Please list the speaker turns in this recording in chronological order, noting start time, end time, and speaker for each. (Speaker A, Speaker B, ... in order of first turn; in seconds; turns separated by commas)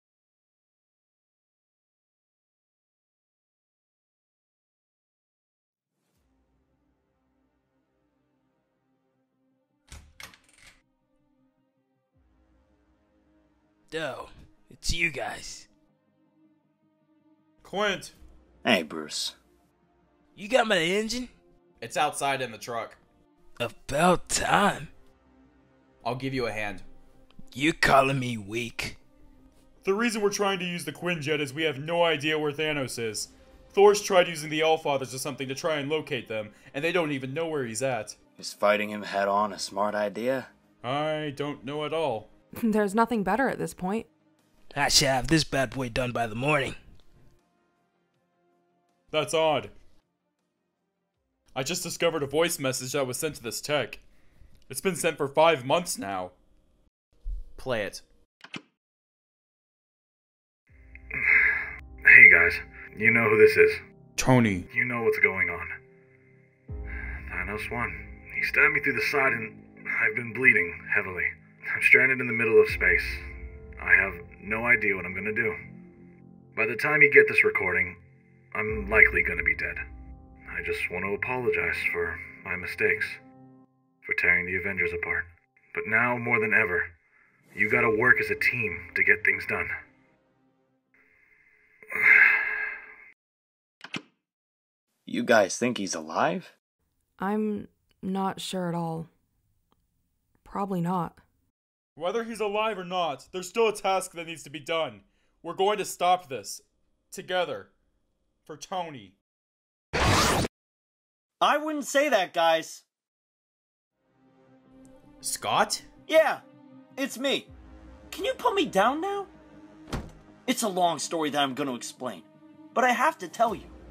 Speaker A: 13.9-15.7, Speaker B: 17.6-18.2, Speaker C: 18.6-19.4, Speaker A: 20.4-21.3, Speaker D: 21.8-23.0, Speaker A: 23.6-24.9, Speaker D: 26.0-26.9, Speaker A: 27.5-29.0, Speaker B: 29.8-38.2, Speaker D: 36.3-37.0, Speaker C: 38.4-40.5, Speaker B: 40.8-42.3, Speaker E: 42.6-44.1, Speaker A: 44.7-46.8, Speaker B: 49.1-49.7, Speaker B: 51.5-54.0, Speaker B: 54.7-56.3, Speaker D: 57.6-58.0, Speaker F: 62.1-63.8, Speaker D: 64.2-64.7, Speaker F: 64.7-65.7, Speaker F: 67.3-73.2, Speaker F: 73.8-75.6, Speaker F: 76.6-78.0, Speaker F: 78.5-79.8, Speaker F: 80.5-83.2, Speaker F: 84.1-86.9, Speaker F: 87.5-89.7, Speaker C: 95.1-96.5, Speaker E: 97.2-99.1, Speaker E: 100.4-101.2, Speaker B: 102.0-107.7, Speaker D: 107.1-107.7, Speaker B: 108.5-109.2, Speaker C: 111.4-112.8, Speaker D: 115.2-115.8, Speaker C: 116.1-116.4, Speaker C: 117.0-117.5, Speaker C: 118.1-119.3, Speaker C: 120.5-123.8